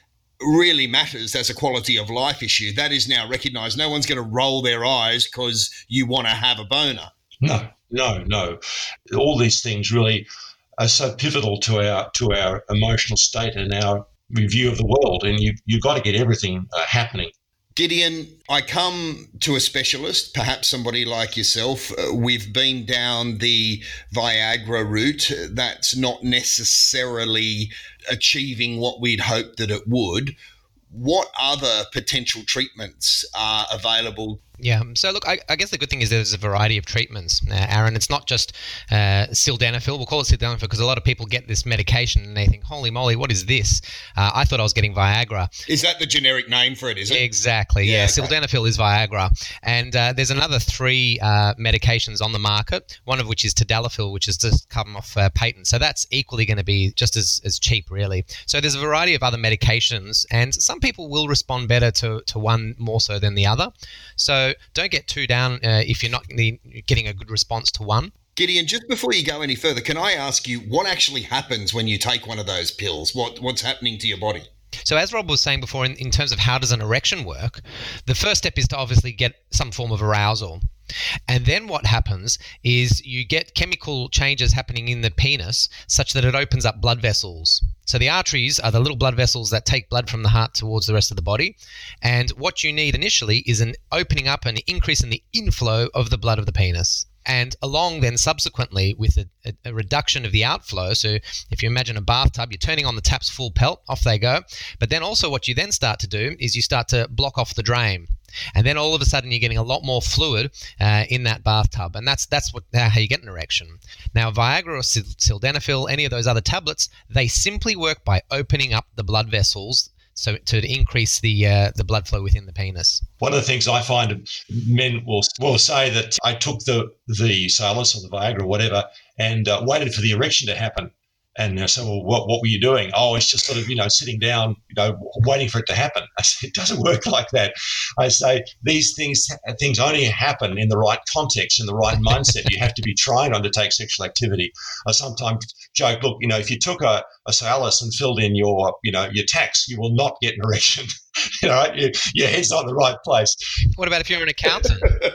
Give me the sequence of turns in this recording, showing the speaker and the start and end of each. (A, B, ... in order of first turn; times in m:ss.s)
0:00.4-0:07.1 A
0:07.4-0:08.6 B
0:09.1-0:10.3 B
0:10.8-0:17.3 B
0:17.8-0:30.4 A
0:30.9-0:34.4 A
0:34.6-0:45.5 C
0:45.7-0:47.2 A
0:47.1-1:08.1 C
0:47.8-0:48.3 A
1:08.4-1:14.5 A
1:14.9-1:20.6 C
1:21.3-2:03.0 C
2:03.2-2:33.4 B
2:33.8-2:35.0 C